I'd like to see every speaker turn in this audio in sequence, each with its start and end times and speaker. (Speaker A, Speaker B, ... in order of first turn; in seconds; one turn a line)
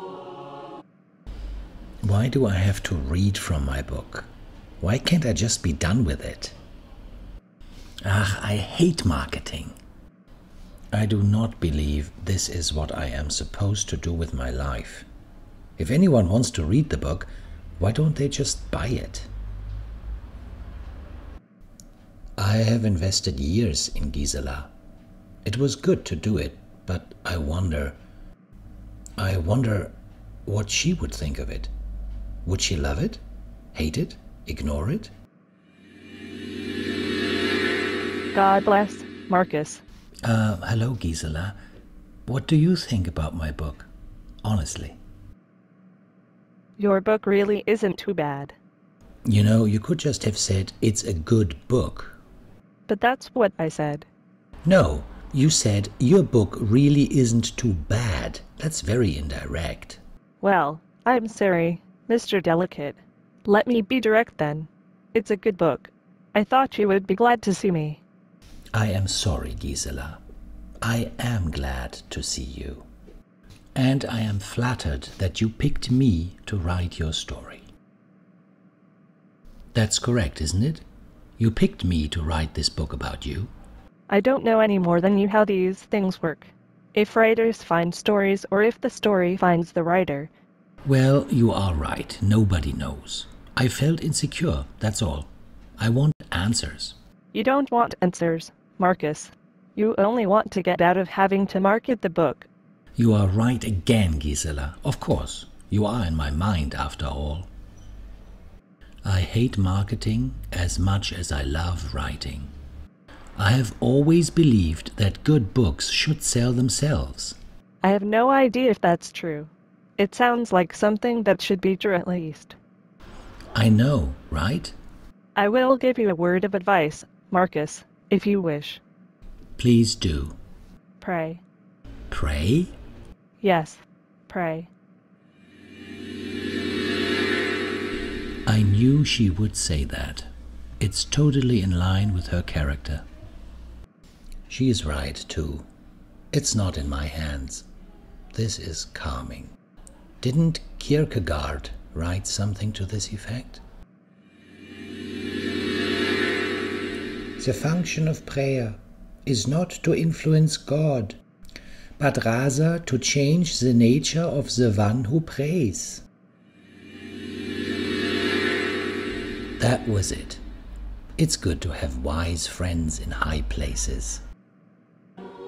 Speaker A: 2.0-6.5
Speaker A: 8.0-9.8
Speaker A: 10.9-15.1
Speaker A: 15.8-19.3
Speaker A: 22.4-24.7
Speaker A: 25.4-28.0
Speaker A: 29.2-29.9
Speaker A: 30.4-31.7
Speaker A: 32.4-33.2
Speaker A: 33.7-35.1
Speaker B: 38.3-39.8
Speaker A: 40.2-41.5
Speaker A: 42.2-43.9
Speaker A: 44.4-45.0
Speaker B: 46.8-48.5
Speaker A: 49.2-52.2
Speaker B: 52.9-54.1
Speaker A: 54.6-60.0
Speaker B: 60.4-68.0
Speaker A: 68.7-70.2
Speaker A: 70.8-72.9
Speaker A: 73.8-77.6
Speaker A: 79.7-80.8
Speaker A: 81.4-83.5
Speaker B: 84.1-90.3
Speaker A: 90.8-97.0
Speaker B: 97.3-102.5
Speaker A: 103.0-107.5
Speaker A: 109.0-112.5
Speaker A: 113.4-117.4
Speaker B: 117.8-122.5
Speaker A: 123.5-124.7
Speaker B: 125.3-128.8
Speaker A: 129.6-130.4
Speaker B: 131.0-131.4
Speaker A: 132.1-132.7
Speaker B: 133.4-134.7
Speaker A: 138.4-143.0
Speaker A: 144.5-145.7
Speaker A: 146.3-147.7
Speaker A: 148.3-149.5
Speaker A: 150.2-153.6
Speaker A: 157.4-161.2
Speaker A: 162.0-166.0
Speaker A: 169.6-170.4
Speaker A: 171.2-174.2